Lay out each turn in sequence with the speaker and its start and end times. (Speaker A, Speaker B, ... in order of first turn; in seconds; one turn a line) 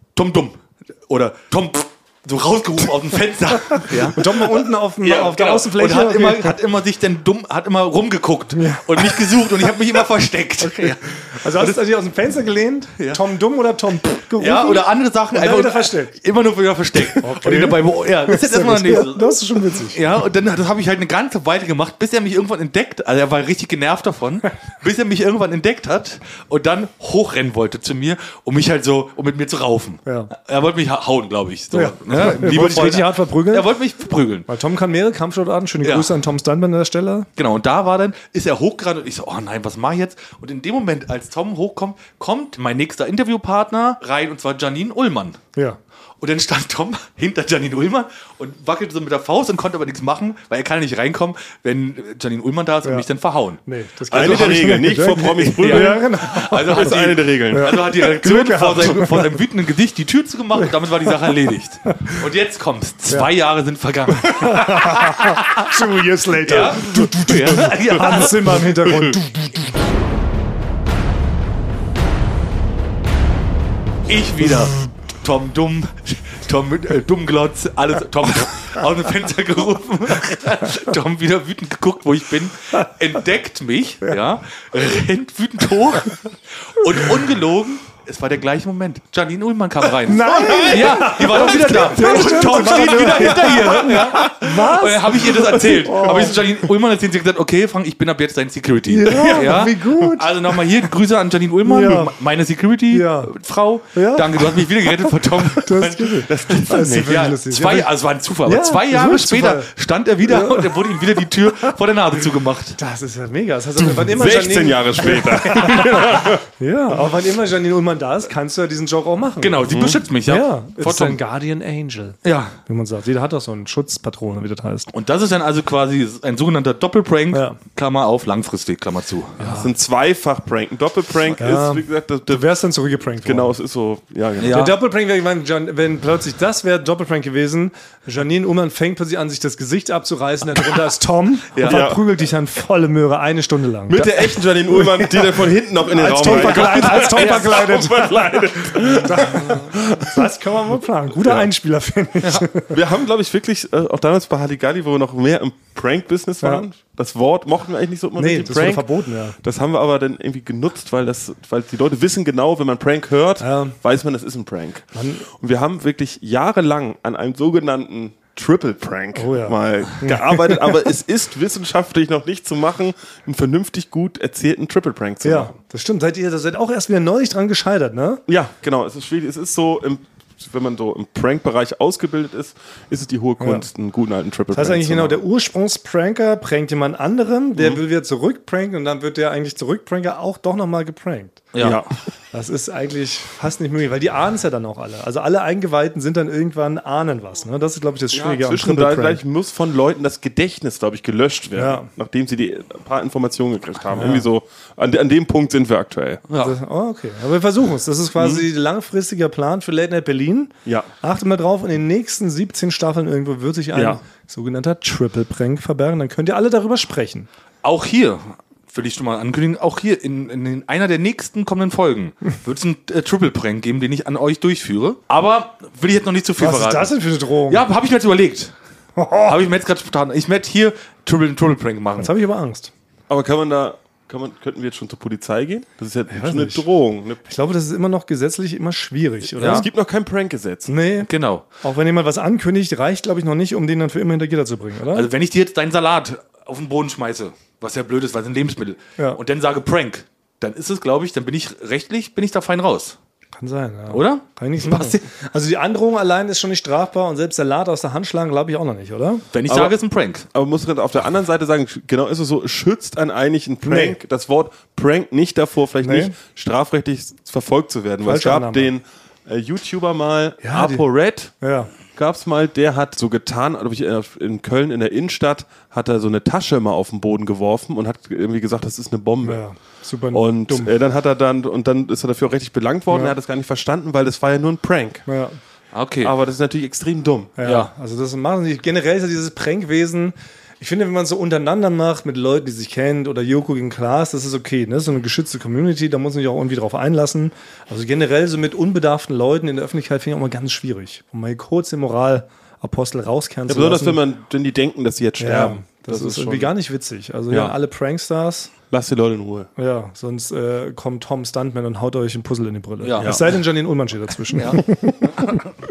Speaker A: 0.2-11.8
Speaker B: 3.7-6.6
Speaker B: 8.6-9.7
Speaker B: 10.6-16.1
Speaker A: 14.4-34.5
Speaker B: 17.2-20.0
Speaker B: 30.1-30.3
Speaker B: 31.7-33.7
Speaker B: 34.5-37.3
Speaker A: 35.8-36.1
Speaker A: 37.4-45.4
Speaker A: 46.2-54.8
Speaker B: 53.7-59.3
Speaker C: 54.1-57.9
Speaker A: 55.6-65.7
Speaker B: 64.2-69.7
Speaker A: 66.4-68.7
Speaker A: 74.1-112.8
Speaker B: 90.1-96.4
Speaker C: 90.2-94.4
Speaker B: 98.9-100.3
Speaker B: 101.7-102.1
Speaker B: 102.9-103.3
Speaker B: 103.9-104.6
Speaker B: 105.5-107.9
Speaker C: 106.1-107.3
Speaker B: 108.5-109.7
Speaker B: 110.3-111.0
Speaker B: 112.8-119.7
Speaker C: 113.8-116.4
Speaker A: 119.4-121.2
Speaker C: 119.7-120.0
Speaker B: 120.2-124.9
Speaker A: 122.2-122.5
Speaker A: 124.9-129.4
Speaker B: 127.3-127.6
Speaker B: 129.4-129.7
Speaker C: 129.4-132.5
Speaker B: 131.4-133.6
Speaker C: 133.2-134.7
Speaker A: 134.4-134.8
Speaker B: 134.4-152.7
Speaker A: 141.5-141.9
Speaker C: 141.6-142.0
Speaker C: 143.9-150.3
Speaker A: 146.2-147.7
Speaker C: 151.2-151.5
Speaker C: 152.7-158.9
Speaker B: 158.2-159.4
Speaker C: 159.4-175.6
Speaker B: 163.4-163.8
Speaker B: 164.9-165.3
Speaker B: 169.2-170.8
Speaker B: 175.2-178.2
Speaker C: 178.3-185.2
Speaker B: 183.4-183.7
Speaker B: 184.5-191.5
Speaker A: 191.5-191.8
Speaker C: 191.6-191.9
Speaker B: 192.3-199.2
Speaker C: 198.1-206.2
Speaker B: 201.6-201.9
Speaker B: 203.9-204.3
Speaker A: 206.3-206.6
Speaker B: 206.4-217.3
Speaker C: 208.2-208.4
Speaker C: 213.7-214.0
Speaker A: 217.6-226.9
Speaker B: 226.4-227.6
Speaker A: 227.5-228.5
Speaker B: 229.0-229.4
Speaker A: 229.2-232.1
Speaker B: 232.0-232.7
Speaker C: 233.1-237.2
Speaker B: 236.1-236.7
Speaker B: 237.2-239.7
Speaker C: 239.4-240.7
Speaker A: 239.4-239.7
Speaker B: 240.7-241.1
Speaker A: 241.1-241.4
Speaker B: 241.6-245.1
Speaker A: 244.9-253.0
Speaker B: 253.4-259.2
Speaker A: 253.9-255.0
Speaker A: 259.3-260.3
Speaker C: 259.5-259.7
Speaker C: 260.3-271.3
Speaker B: 263.6-264.0
Speaker B: 265.8-266.1
Speaker B: 268.0-268.7
Speaker B: 270.4-270.9
Speaker B: 271.4-271.7
Speaker C: 271.9-279.4
Speaker B: 279.2-280.7
Speaker C: 280.1-285.1
Speaker B: 285.1-285.4
Speaker A: 285.7-286.1
Speaker C: 286.0-287.4
Speaker B: 287.4-304.0
Speaker A: 287.4-287.7
Speaker C: 303.5-306.5
Speaker B: 305.2-308.5
Speaker C: 307.3-307.6
Speaker C: 308.7-309.5
Speaker B: 309.6-315.4
Speaker A: 312.8-313.2
Speaker C: 313.0-313.2
Speaker A: 314.3-314.6